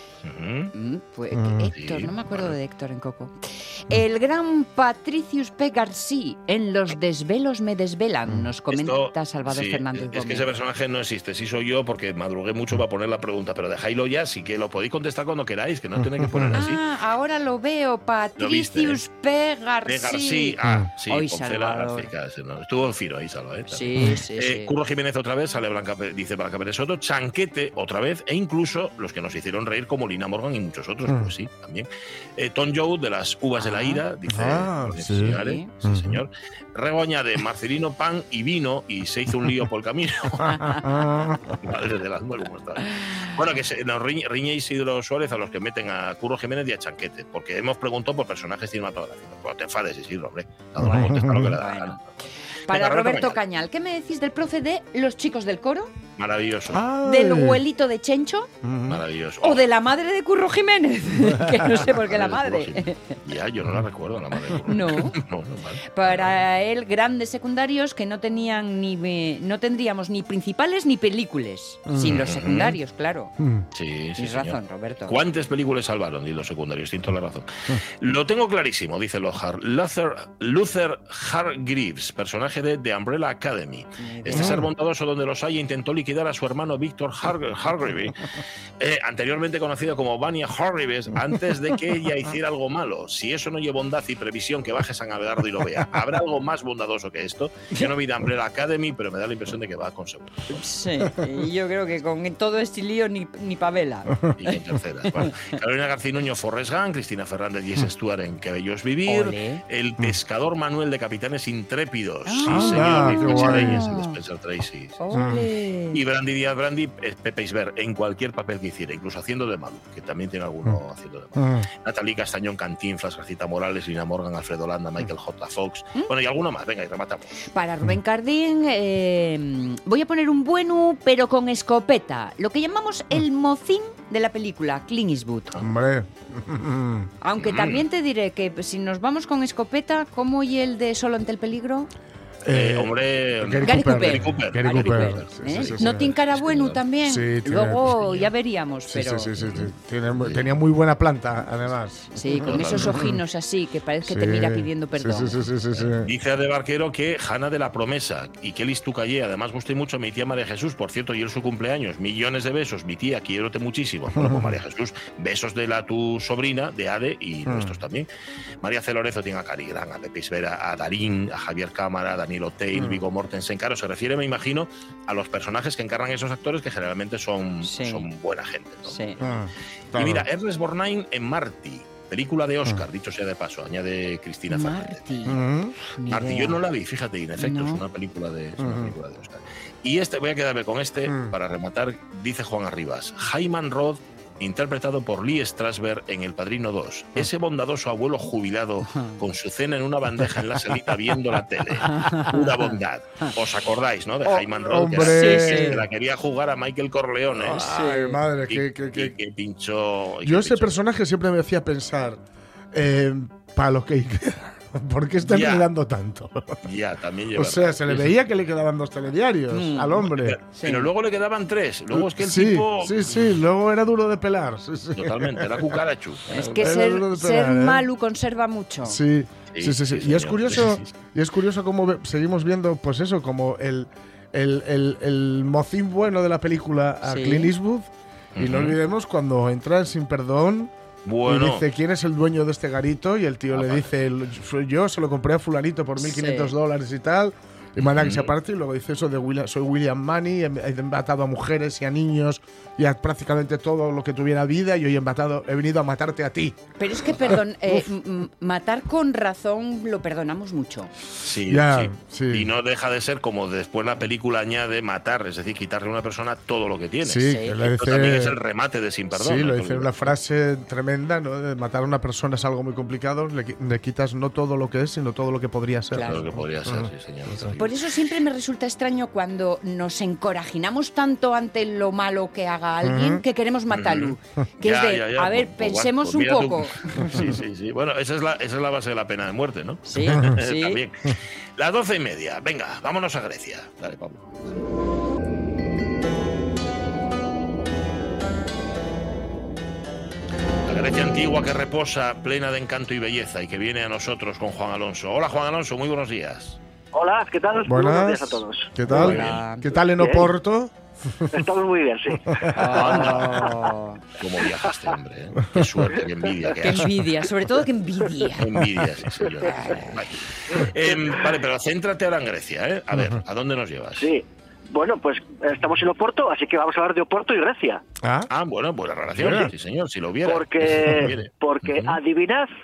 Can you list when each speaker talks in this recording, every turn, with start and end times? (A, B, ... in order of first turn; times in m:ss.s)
0:00.2-0:00.7 A
0:00.7-0:10.5 B
0:01.3-0:01.7 C
0:01.7-0:02.5 A
0:08.7-0:16.8 A
0:16.0-0:16.6 C
0:16.5-0:20.5 B
0:18.4-0:19.0 A
0:19.8-0:40.8 A
0:20.6-0:20.9 C
0:21.1-0:22.1 B
0:23.7-0:24.7 B
0:33.6-0:34.0 B
0:34.3-0:36.2 C
0:35.3-0:35.7 B
0:40.5-0:40.8 B
0:40.6-0:41.5 C
0:41.6-0:52.0 A
0:43.0-0:43.3 B
0:50.8-0:51.6 C
0:50.8-0:52.0 B
0:52.7-0:55.9 B
0:52.7-0:53.4 A
0:56.2-0:56.8 A
0:56.7-0:57.6 C
0:57.0-0:58.5 B
0:58.6-0:59.0 C
0:58.9-0:59.6 A
0:59.4-1:03.2 B
1:01.7-1:06.3 A
1:04.6-1:05.2 B
1:05.9-1:13.3 B
1:11.9-1:12.2 C
1:12.0-1:12.8 A
1:13.4-1:13.6 C
1:13.7-1:17.5 A
1:14.2-1:15.2 B
1:18.0-1:40.6 A
1:24.0-1:24.6 B
1:24.3-1:24.7 C
1:40.5-1:44.6 B
1:44.4-1:55.0 A
1:49.1-1:49.6 B
1:52.2-1:54.2 B
1:52.4-1:53.9 C
1:55.0-1:56.0 B
1:55.1-1:55.4 C
1:55.9-2:07.5 A
2:01.4-2:01.7 C
2:07.5-2:15.6 B
2:15.6-2:17.1 C
2:17.2-2:21.9 B
2:17.4-2:17.8 A
2:22.4-2:26.1 C
2:22.5-2:26.8 A
2:23.6-2:29.3 B
2:27.0-2:27.9 C
2:28.9-2:33.2 C
2:29.4-2:30.5 A
2:32.1-2:35.4 B
2:32.4-2:33.0 A
2:34.0-2:36.1 C
2:35.7-2:48.1 A
2:44.1-2:44.6 C
2:47.4-2:47.8 C
2:48.6-2:59.3 A
2:52.7-2:53.0 C
2:57.6-2:58.0 B
2:58.8-2:59.2 B
2:59.2-3:00.3 C
2:59.9-3:05.0 A
3:04.5-3:06.6 B
3:05.2-3:05.7 C
3:06.1-3:27.7 A
3:07.4-3:07.8 B
3:08.6-3:08.9 C
3:11.1-3:11.3 C
3:21.8-3:22.7 B
3:24.7-3:25.9 C
3:25.0-3:25.8 B
3:27.3-3:29.1 C
3:27.5-3:28.2 B
3:28.4-3:30.7 A
3:30.2-3:32.2 C
3:32.7-3:36.6 C
3:35.2-3:35.7 A
3:36.6-3:38.1 A
3:37.3-3:40.4 C
3:39.5-3:40.9 B
3:40.2-3:43.3 A
3:41.9-3:45.8 C
3:44.9-3:46.5 A
3:46.3-3:49.0 B
3:46.3-3:47.8 C
3:48.8-4:00.7 C
3:49.5-3:50.9 A
3:57.0-3:57.5 B
3:58.3-3:58.8 A
4:01.0-4:01.6 A
4:01.2-4:16.6 C
4:03.5-4:03.9 A
4:06.0-4:06.5 B
4:07.8-4:08.3 A
4:16.8-4:20.9 B
4:17.3-4:17.8 C
4:21.2-4:30.1 A
4:21.4-4:22.5 C
4:27.0-4:28.4 C
4:27.2-4:27.6 B
4:29.1-4:37.6 C
4:35.9-4:36.2 B
4:36.1-4:37.7 A
4:37.6-4:47.3 B
4:42.8-4:43.2 C
4:43.7-4:54.2 A
4:49.9-4:50.8 B
5:00.6-5:06.6 A
5:06.9-5:08.7 D
5:07.6-5:11.4 C
5:08.9-5:09.4 A
5:08.9-5:09.8 B
5:09.9-5:10.3 D
5:11.3-5:13.5 D
5:12.5-5:14.0 B
5:12.6-5:13.5 A
5:14.2-5:17.0 A
5:16.6-5:18.5 B
5:18.4-5:24.1 A
5:19.4-5:20.0 B
5:20.9-5:21.2 D
5:22.9-5:23.2 C
5:24.0-5:27.8 D
5:28.0-5:28.3 C
5:28.3-5:32.0 A
5:29.1-5:29.5 C
5:30.2-5:32.5 D